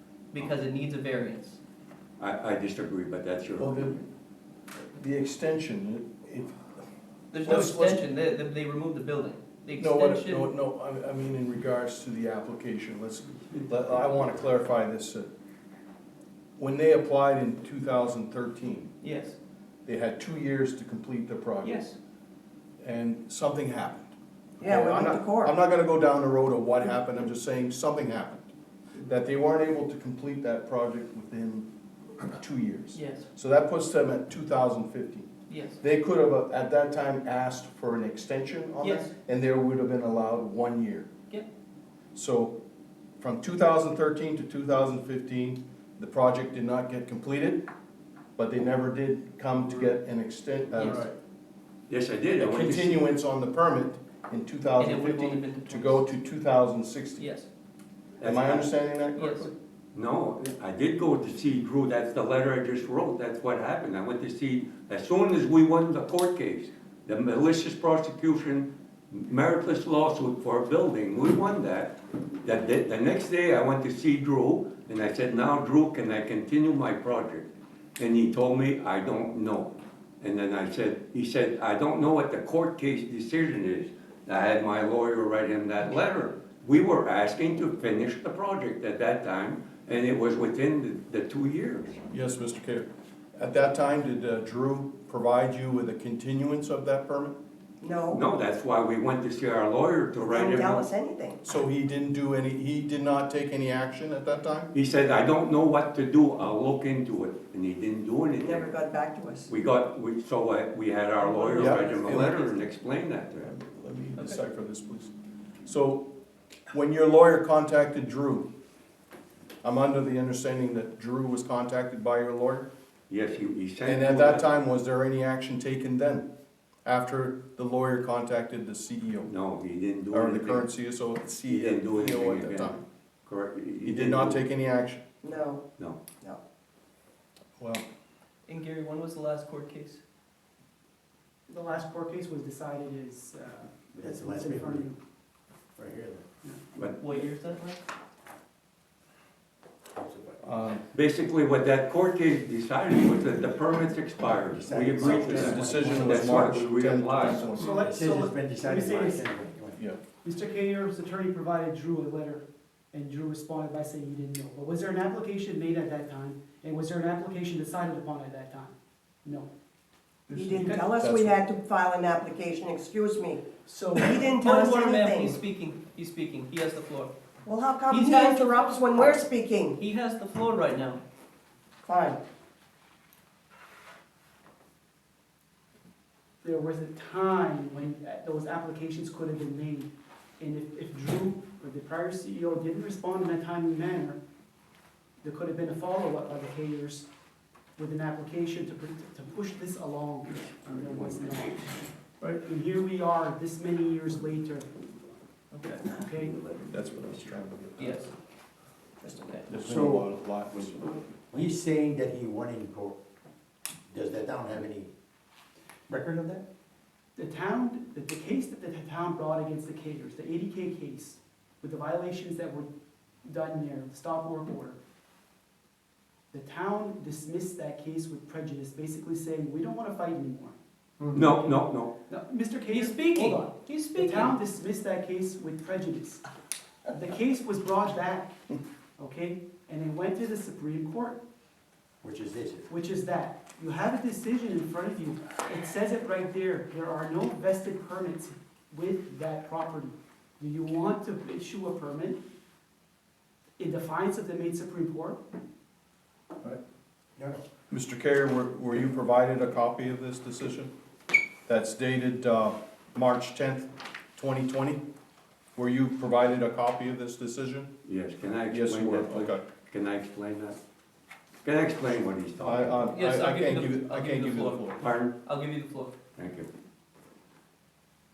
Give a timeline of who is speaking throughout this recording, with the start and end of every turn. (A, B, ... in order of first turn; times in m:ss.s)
0:00.3-0:01.6 A
0:02.2-0:03.9 B
0:03.6-0:04.0 C
0:04.9-0:06.7 C
0:07.3-0:10.5 A
0:07.4-0:08.0 C
0:09.8-0:15.3 C
0:16.6-0:18.9 C
0:19.0-0:19.4 A
0:19.8-0:21.8 C
0:21.6-0:22.0 A
0:22.8-0:28.5 C
0:24.6-0:25.5 D
0:29.0-0:31.7 C
0:32.2-0:35.3 C
0:32.9-0:33.2 A
0:35.5-0:35.8 A
0:35.8-0:41.1 C
0:38.8-0:39.1 A
0:42.1-0:42.6 C
0:43.2-0:47.7 C
0:48.4-0:51.1 C
0:50.8-0:51.0 A
0:51.9-0:53.0 B
0:52.4-0:57.3 C
0:54.8-0:56.0 A
0:57.2-0:57.5 A
0:58.2-0:58.7 B
0:58.2-0:59.5 C
0:59.1-0:59.5 A
0:59.9-1:17.5 B
1:18.0-1:32.0 B
1:32.1-1:37.4 C
1:37.8-1:38.2 D
1:38.1-1:40.8 B
1:40.3-1:41.4 D
1:41.4-1:44.7 C
1:44.7-1:48.7 B
1:48.4-1:49.5 D
1:49.5-1:53.5 B
1:51.2-1:52.5 A
1:51.6-1:52.4 C
1:53.4-1:55.1 C
1:55.6-1:56.1 C
1:56.7-1:58.5 C
1:59.6-2:02.7 C
2:03.1-2:04.4 B
2:03.8-2:06.2 C
2:06.8-2:09.3 C
2:09.2-2:10.7 B
2:10.1-2:12.8 C
2:11.5-2:12.7 B
2:13.2-2:14.4 B
2:13.8-2:15.0 C
2:15.2-2:15.6 D
2:17.6-2:17.8 C
2:18.5-2:20.0 A
2:21.5-2:25.0 E
2:23.9-2:24.9 F
2:25.8-2:26.2 F
2:26.4-2:27.2 E
2:27.0-2:27.8 A
2:29.9-2:30.4 F
2:30.4-2:30.8 C
2:30.9-2:37.5 B
2:34.5-2:36.5 F
2:35.0-2:37.8 C
2:37.5-2:39.3 E
2:37.7-2:39.8 F
2:40.2-2:49.5 E
2:50.3-2:50.8 E
2:50.3-2:51.4 C
2:50.3-2:55.4 D
2:53.6-2:54.2 E
2:54.2-2:57.1 A
2:57.4-2:59.8 D
2:57.9-2:58.8 A
2:59.8-3:01.0 A
3:01.8-3:02.2 D
3:06.4-3:14.2 E
3:15.2-3:17.1 E
3:17.8-3:24.7 E
3:25.5-3:25.9 A
3:25.9-3:26.4 E
3:26.5-3:28.1 C
3:27.8-3:28.1 A
3:29.0-3:29.5 A
3:29.5-3:31.1 C
3:29.6-3:30.0 F
3:31.3-3:33.0 F
3:33.9-3:34.9 F
3:35.9-3:36.4 F
3:37.2-3:42.7 E
3:43.2-3:44.8 E
3:46.3-3:50.6 E
3:51.1-3:51.9 B
3:52.1-3:56.2 E
3:52.7-3:54.3 A
3:56.9-3:58.3 E
3:59.0-4:01.2 E
4:02.0-4:02.7 F
4:02.7-4:12.2 E
4:13.6-4:15.2 E
4:17.2-4:17.4 F
4:17.7-4:20.7 C
4:21.5-4:24.8 C
4:25.6-4:27.7 C
4:27.8-4:30.6 B
4:28.5-4:29.4 C
4:31.4-4:32.9 B
4:32.4-4:34.8 C
4:32.9-4:35.9 A
4:34.8-4:35.1 B
4:36.2-4:36.5 B